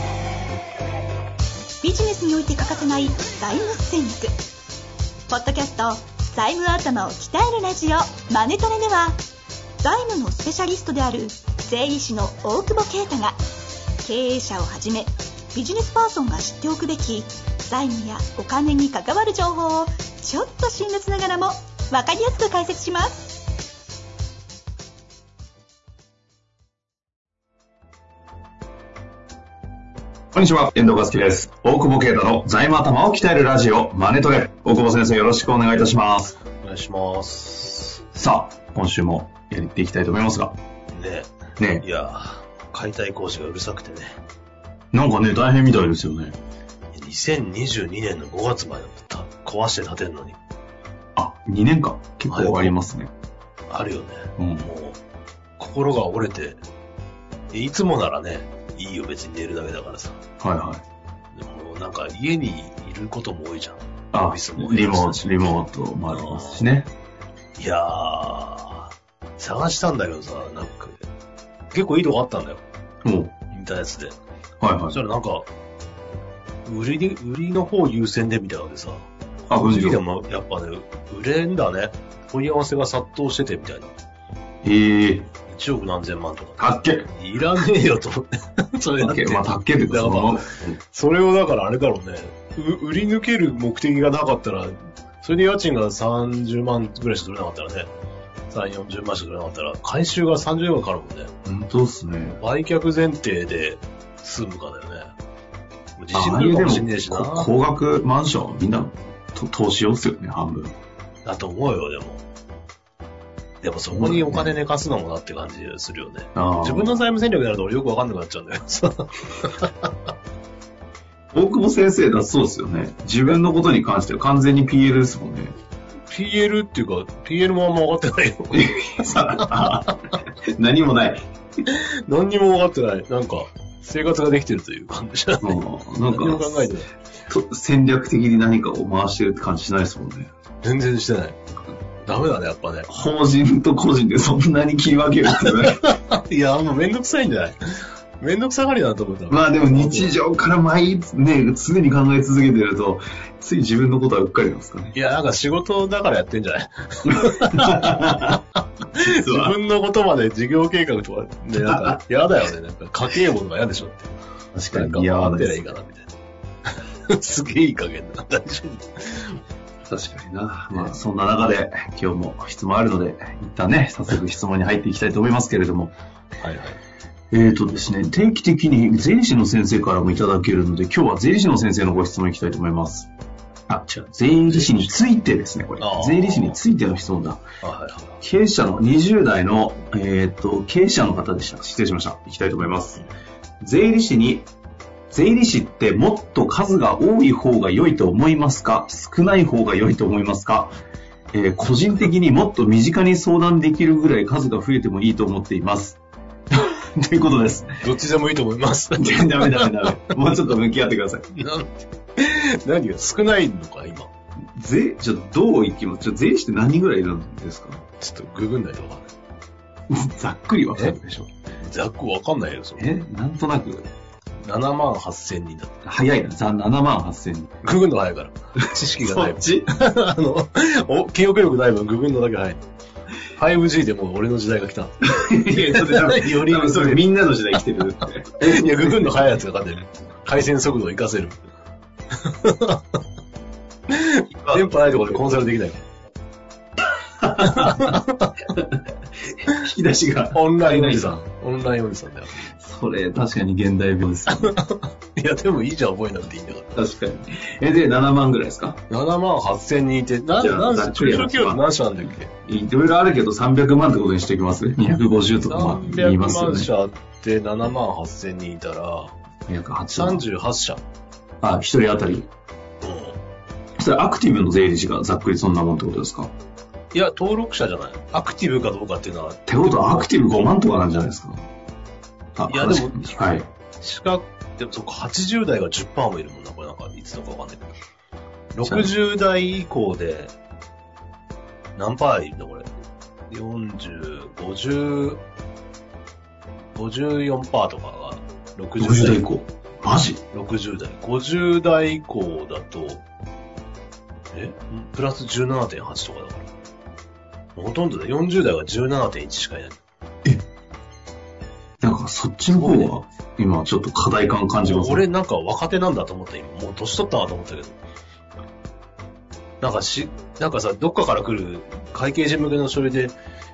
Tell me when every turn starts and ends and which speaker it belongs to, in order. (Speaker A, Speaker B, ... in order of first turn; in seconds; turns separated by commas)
Speaker A: 1.8-4.3, Speaker A: 5.3-9.2, Speaker A: 9.8-13.4, Speaker A: 14.0-23.4, Speaker B: 30.3-36.4, Speaker C: 36.6-38.0, Speaker B: 38.1-40.6, Speaker C: 40.9-44.2, Speaker B: 41.6-41.8, Speaker B: 44.9-46.4, Speaker C: 46.9-50.4, Speaker B: 51.2-53.1, Speaker C: 52.3-52.8, Speaker C: 53.7-55.0, Speaker B: 54.4-54.7, Speaker C: 55.6-56.6, Speaker C: 57.5-60.2, Speaker B: 60.4-60.8, Speaker C: 61.3-65.4, Speaker B: 64.1-66.9, Speaker C: 66.1-66.7, Speaker C: 67.6-71.0, Speaker C: 71.7-72.6, Speaker B: 73.0-73.3, Speaker C: 73.5-74.1, Speaker B: 74.6-75.0, Speaker C: 74.9-75.5, Speaker C: 76.6-83.9, Speaker B: 79.5-80.0, Speaker B: 84.6-85.3, Speaker C: 85.5-97.9, Speaker B: 86.6-87.1, Speaker B: 89.0-90.8, Speaker C: 98.5-101.3, Speaker B: 101.4-102.4, Speaker C: 102.4-105.1, Speaker C: 106.0-107.5, Speaker B: 106.1-110.8, Speaker C: 111.2-112.2, Speaker C: 113.6-119.9, Speaker B: 113.9-114.5, Speaker B: 116.3-117.0, Speaker B: 121.3-125.5, Speaker C: 126.1-128.8, Speaker B: 128.5-129.9, Speaker B: 130.6-131.2, Speaker C: 131.7-136.9, Speaker B: 135.4-136.7, Speaker B: 137.3-140.3, Speaker C: 140.6-141.4, Speaker C: 142.1-142.9, Speaker B: 142.9-145.9, Speaker C: 145.5-150.1, Speaker B: 149.3-154.9, Speaker C: 154.9-164.2, Speaker B: 157.1-158.4, Speaker B: 159.1-159.6, Speaker B: 161.6-162.0, Speaker B: 164.6-165.6, Speaker C: 164.7-166.1, Speaker C: 167.1-169.4, Speaker B: 169.9-175.9, Speaker C: 176.4-176.8, Speaker B: 177.3-183.1, Speaker B: 183.7-187.4, Speaker C: 184.5-184.9, Speaker C: 185.8-186.6, Speaker C: 187.6-188.2, Speaker B: 188.2-193.0, Speaker B: 193.6-194.5, Speaker B: 195.1-200.8, Speaker B: 201.3-206.0, Speaker B: 206.5-207.8, Speaker C: 207.8-209.8, Speaker B: 209.0-211.3, Speaker C: 211.3-214.1, Speaker B: 214.6-217.8, Speaker C: 218.0-219.1, Speaker B: 219.9-221.3, Speaker C: 220.7-222.9, Speaker B: 222.8-223.9, Speaker C: 224.4-225.8, Speaker B: 225.8-227.5, Speaker C: 227.6-232.6, Speaker B: 229.0-229.7, Speaker C: 233.3-237.1, Speaker B: 235.0-239.2, Speaker C: 238.4-241.4, Speaker C: 242.2-242.8, Speaker C: 243.9-245.8, Speaker B: 244.4-245.4, Speaker B: 247.2-248.0, Speaker C: 247.4-248.3, Speaker B: 249.3-251.2, Speaker C: 250.3-252.5, Speaker B: 252.6-254.5, Speaker C: 254.3-256.7, Speaker B: 256.8-258.8, Speaker C: 258.9-262.3, Speaker B: 260.4-261.6, Speaker B: 262.4-266.7, Speaker C: 265.4-269.1, Speaker B: 269.5-270.2, Speaker C: 269.9-270.8, Speaker B: 271.4-272.3, Speaker C: 272.8-273.2, Speaker B: 273.8-276.3, Speaker C: 276.9-280.1, Speaker B: 279.5-281.4, Speaker B: 282.4-283.5, Speaker C: 282.5-287.7, Speaker C: 288.5-290.3, Speaker B: 288.6-288.9, Speaker C: 291.8-292.7, Speaker C: 293.3-295.2, Speaker C: 296.8-299.2, Speaker B: 298.8-300.2, Speaker C: 300.3-303.0, Speaker C: 304.3-306.5, Speaker C: 307.5-309.8, Speaker B: 311.8-315.1, Speaker C: 312.5-312.9, Speaker C: 314.6-317.8, Speaker C: 319.6-323.1